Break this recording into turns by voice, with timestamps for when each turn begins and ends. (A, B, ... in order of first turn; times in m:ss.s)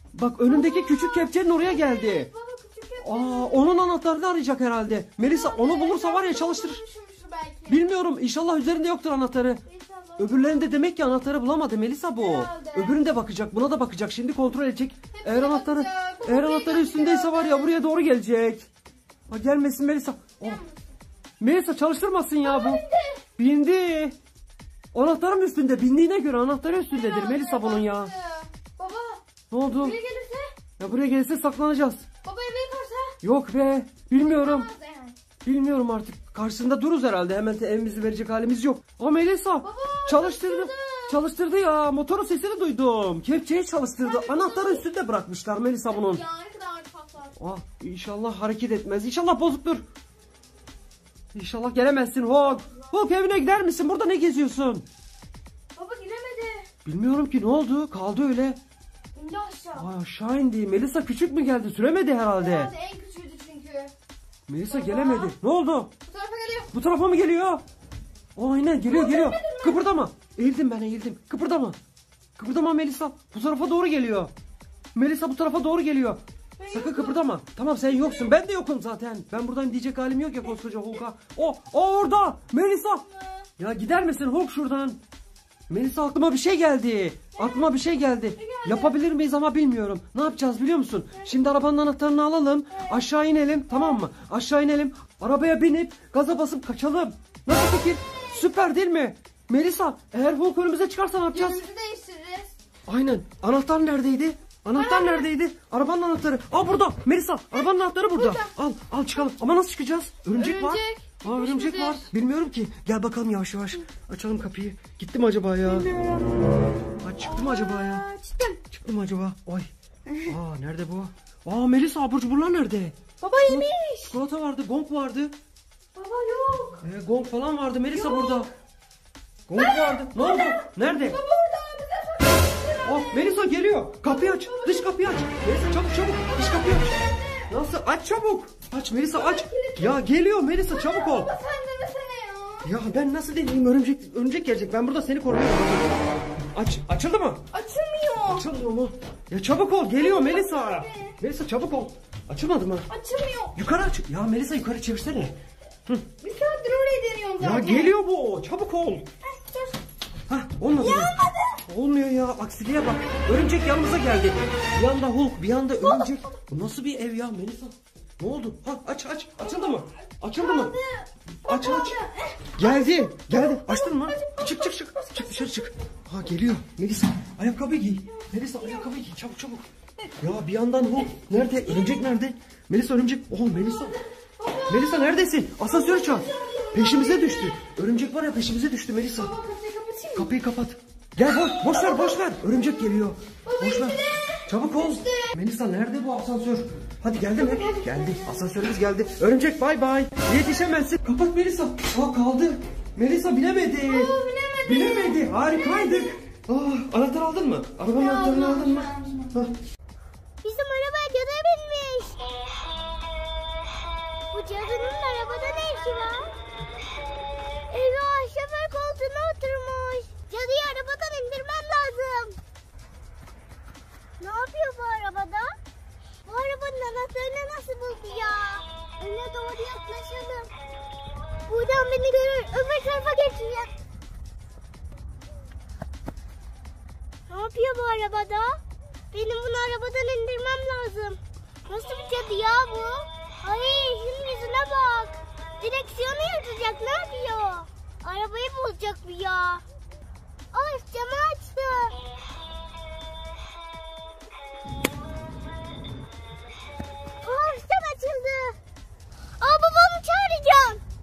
0:00.1-0:02.3 A
0:00.4-0:03.7 B
0:03.0-0:06.8 A
0:05.2-0:07.8 B
0:07.7-0:09.6 A
0:09.7-0:10.7 B
0:10.2-0:18.7 A
0:12.2-0:13.0 B
0:15.1-0:17.8 B
0:19.3-0:20.6 A
0:20.4-0:20.9 B
0:21.4-0:22.8 A
0:22.4-0:23.2 B
0:23.4-0:24.2 A
0:24.9-0:28.1 A
0:26.9-0:30.5 B
0:29.5-0:30.0 A
0:30.8-0:32.0 A
0:32.2-0:33.2 B
0:33.2-0:34.7 A
0:34.2-0:35.2 B
0:35.4-0:46.2 A
0:39.6-0:41.2 B
0:44.0-0:44.8 B
0:45.9-0:47.3 B
0:47.4-0:49.8 A
0:51.3-0:54.9 A
0:55.8-0:56.6 B
0:56.8-0:58.6 A
0:59.1-0:59.9 B
0:59.8-1:02.7 A
1:02.3-1:03.9 B
1:04.5-1:05.9 A
1:04.6-1:05.3 B
1:06.0-1:06.7 B
1:06.7-1:07.6 A
1:08.4-1:11.8 A
1:08.9-1:09.9 B
1:12.4-1:14.3 A
1:14.9-1:23.0 A
1:16.6-1:17.2 B
1:18.0-1:18.3 B
1:23.1-1:23.5 B
1:23.6-1:25.0 A
1:25.7-1:41.6 A
1:27.3-1:27.8 B
1:28.3-1:28.9 B
1:32.7-1:33.0 B
1:41.3-1:42.5 B
1:42.9-1:55.9 A
1:44.7-1:45.3 B
1:47.5-1:48.5 B
1:50.3-1:52.1 B
1:55.6-1:56.5 B
1:57.0-1:58.0 A
1:57.2-1:58.6 B
1:58.7-1:59.7 A
2:00.3-2:05.3 A
2:03.2-2:04.2 B
2:05.9-2:06.8 B
2:06.8-2:08.5 A
2:07.9-2:08.5 B
2:09.5-2:11.2 A
2:09.6-2:13.2 B
2:12.8-2:16.9 A
2:14.0-2:15.0 B
2:16.3-2:17.4 B
2:17.5-2:21.3 A
2:19.1-2:20.0 B
2:20.7-2:22.7 B
2:22.6-2:25.9 A
2:26.5-2:27.4 A
2:27.5-2:28.4 B
2:28.2-2:32.8 A
2:30.0-2:31.2 B
2:32.9-2:33.5 B
2:33.6-2:35.4 A
2:36.2-2:37.9 B
2:37.4-2:39.0 A
2:39.2-2:39.8 B
2:40.3-2:50.8 A
2:40.8-2:41.6 B
2:49.4-2:49.8 B
2:50.3-2:55.7 B
2:51.4-2:52.0 A
2:52.6-2:59.6 A
3:00.2-3:04.0 A
3:03.9-3:04.9 B
3:04.7-3:09.3 A
3:05.6-3:07.6 B
3:09.1-3:10.3 B
3:10.1-3:29.5 A
3:11.6-3:12.0 B
3:13.4-3:15.3 B
3:17.3-3:18.3 B
3:23.8-3:26.1 B
3:27.9-3:29.3 B
3:30.4-3:32.2 C
3:34.3-3:36.3 C
3:37.7-3:42.4 C
3:44.2-3:45.6 C
3:46.2-3:50.5 C
3:51.5-3:53.7 C
3:57.3-3:58.6 C
3:59.1-4:09.6 C
4:10.5-4:12.0 C
4:17.2-4:18.6 C
4:19.4-4:20.8 C